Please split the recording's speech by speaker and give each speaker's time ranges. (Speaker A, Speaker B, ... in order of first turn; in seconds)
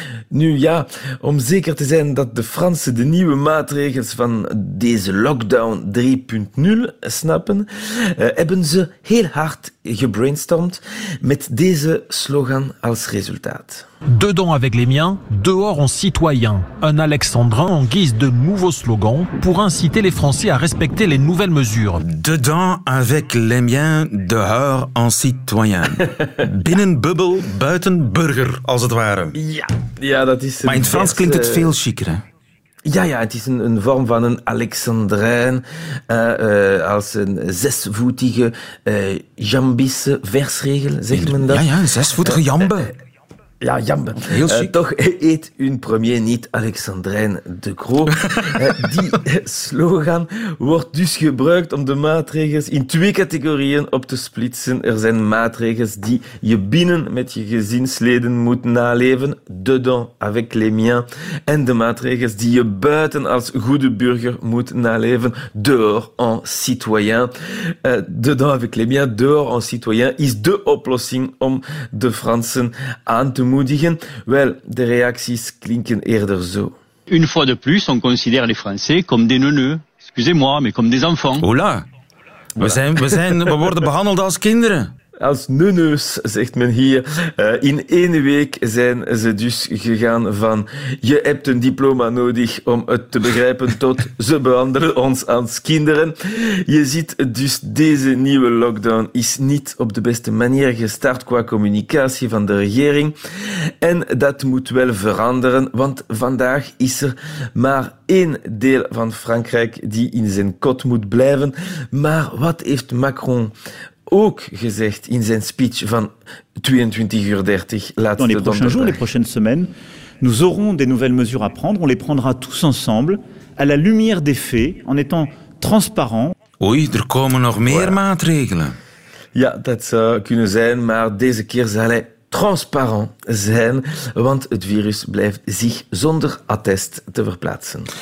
Speaker A: 0.3-13.8, 26.2-26.5, 29.3-31.7, 32.9-41.7, 43.6-76.8, 82.6-83.2, 85.2-103.2, 103.8-113.5, 114.1-119.0, 127.7-128.0, 129.3-137.9
Speaker B: 14.1-22.0
Speaker C: 22.0-29.4, 30.6-32.2, 41.1-42.9, 44.3-44.7, 81.4-81.8, 82.6-84.9, 126.6-128.8
Speaker D: 77.1-81.5
Speaker E: 118.2-126.3